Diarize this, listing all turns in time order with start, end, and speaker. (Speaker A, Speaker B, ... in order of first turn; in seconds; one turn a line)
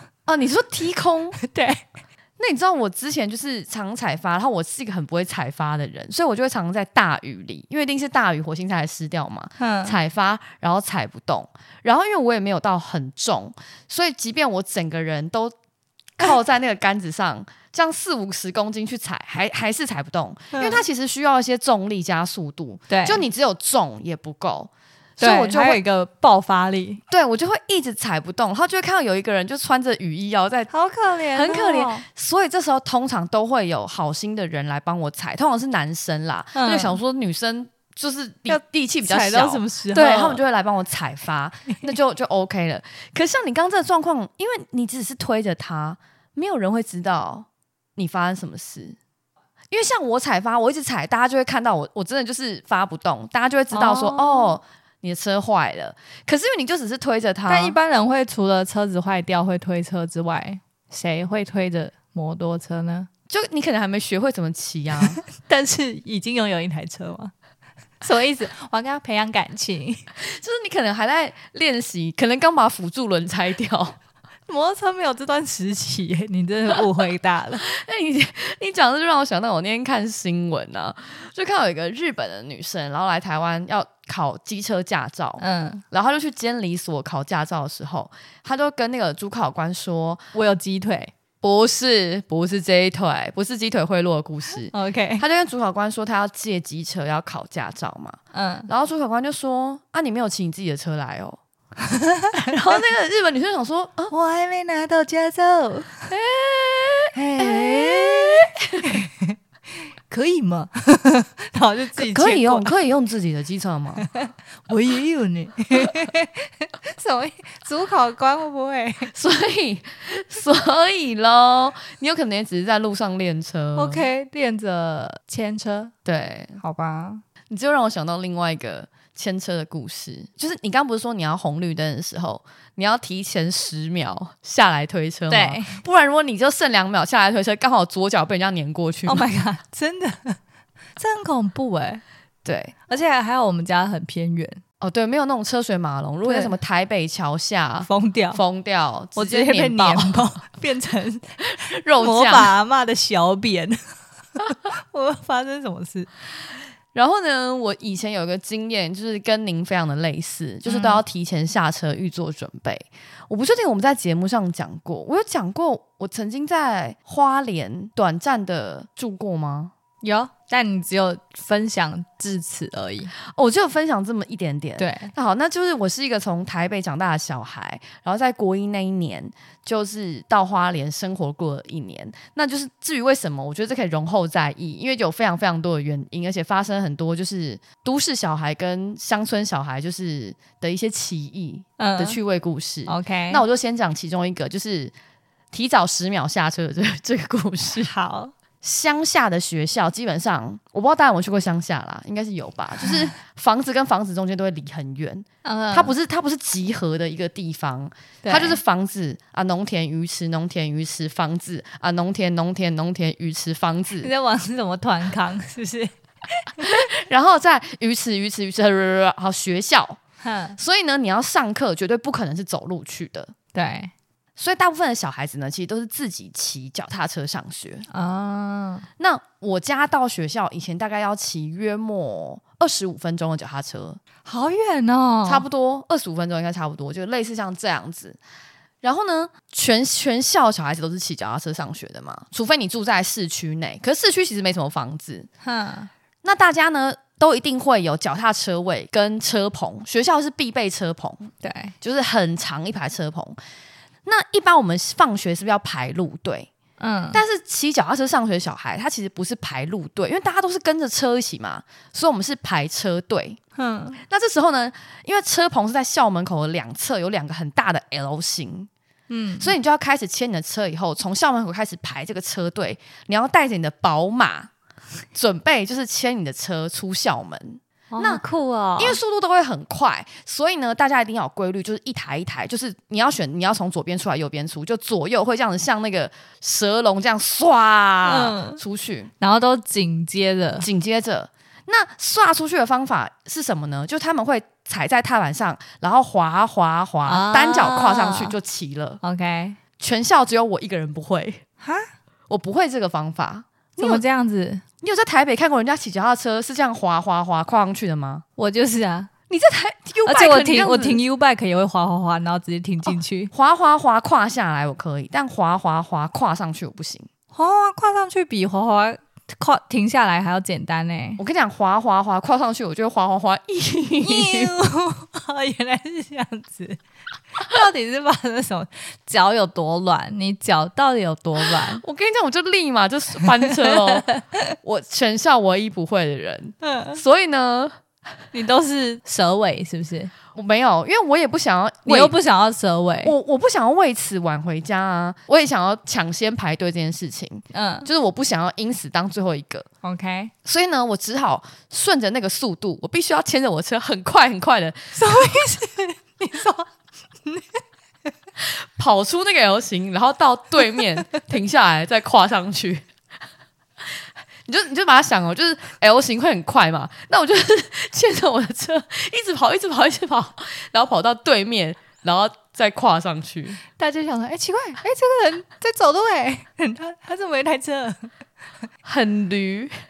Speaker A: 0.3-1.4
Speaker B: 1.4-1.8
Speaker A: 2.4-15.5
Speaker B: 9.6-10.0
Speaker A: 16.2-25.8
Speaker B: 20.5-20.8
Speaker B: 22.9-23.2
Speaker B: 25.2-27.0
Speaker A: 27.1-30.7
Speaker B: 30.7-32.1
Speaker A: 31.3-49.0
Speaker B: 36.5-37.0
Speaker B: 38.5-40.4
Speaker A: 49.7-57.8
Speaker B: 53.7-54.6
Speaker B: 57.5-63.1
Speaker A: 63.3-65.2
Speaker B: 65.3-67.3
Speaker B: 68.0-70.0
Speaker A: 70.2-74.0
Speaker B: 74.5-77.6
Speaker A: 77.6-90.3
Speaker B: 85.4-85.8
Speaker B: 90.3-91.1
Speaker A: 91.4-101.4
Speaker B: 94.7-95.2
Speaker B: 98.3-98.7
Speaker B: 101.8-102.5
Speaker A: 102.3-104.1
Speaker B: 104.1-105.9
Speaker A: 106.1-109.0
Speaker B: 107.2-109.4
Speaker B: 110.1-112.7
Speaker A: 112.0-114.1
Speaker B: 114.0-119.1
Speaker A: 119.1-124.1
Speaker B: 123.8-125.9
Speaker A: 126.0-126.6
Speaker B: 126.6-127.2
Speaker A: 127.5-139.2
Speaker B: 135.3-135.8
Speaker B: 139.1-140.4
Speaker B: 141.0-142.0
Speaker A: 142.4-142.8
Speaker B: 142.9-144.6
Speaker A: 144.8-150.3
Speaker B: 146.2-146.5
Speaker B: 147.8-148.4
Speaker B: 149.2-151.2
Speaker A: 151.5-152.5
Speaker B: 152.0-153.8
Speaker B: 154.5-156.1
Speaker A: 156.9-169.7
Speaker B: 160.7-161.0
Speaker B: 170.0-173.1
Speaker A: 173.3-194.9
Speaker B: 174.8-175.1
Speaker B: 191.8-192.2
Speaker B: 192.9-193.4
Speaker A: 195.5-197.9
Speaker B: 197.9-198.3
Speaker A: 198.6-214.1
Speaker B: 205.4-205.9
Speaker B: 208.2-208.6
Speaker B: 214.0-216.8
Speaker A: 216.6-220.0
Speaker B: 220.2-220.6
Speaker A: 220.6-223.3
Speaker B: 223.5-223.9
Speaker A: 224.4-227.9
Speaker B: 227.9-228.9
Speaker A: 229.0-234.0
Speaker B: 234.2-235.4
Speaker A: 235.2-238.2
Speaker A: 238.8-245.3
Speaker B: 245.4-245.9
Speaker A: 246.2-253.4
Speaker B: 251.4-251.7
Speaker A: 254.1-256.5
Speaker B: 256.8-257.2
Speaker A: 257.1-263.4
Speaker B: 263.6-264.0
Speaker A: 264.1-268.7
Speaker B: 269.1-269.5
Speaker A: 269.4-274.5
Speaker A: 275.1-278.2
Speaker B: 277.9-279.0
Speaker A: 278.8-289.1
Speaker B: 288.1-288.6
Speaker B: 289.2-290.7
Speaker A: 290.6-299.0
Speaker B: 297.1-298.3
Speaker B: 299.0-299.6
Speaker A: 299.8-301.4
Speaker B: 301.6-301.9
Speaker A: 302.3-304.0
Speaker B: 303.8-304.6
Speaker A: 304.8-308.2
Speaker B: 308.4-309.1
Speaker A: 309.3-311.0
Speaker B: 310.1-313.3
Speaker A: 312.9-317.1
Speaker B: 317.3-321.2
Speaker A: 321.2-324.5
Speaker B: 324.0-326.8
Speaker B: 327.4-331.8
Speaker A: 331.7-334.1
Speaker B: 333.8-334.5
Speaker A: 334.6-337.8
Speaker B: 336.6-337.0
Speaker B: 338.3-340.1
Speaker A: 340.4-342.1
Speaker B: 341.9-343.1
Speaker A: 343.0-349.7
Speaker B: 347.5-347.9
Speaker B: 349.8-350.3
Speaker A: 350.4-355.3
Speaker B: 354.9-356.7
Speaker B: 357.2-357.6
Speaker A: 358.4-362.8
Speaker A: 364.5-373.6
Speaker B: 373.8-378.1
Speaker A: 378.8-379.8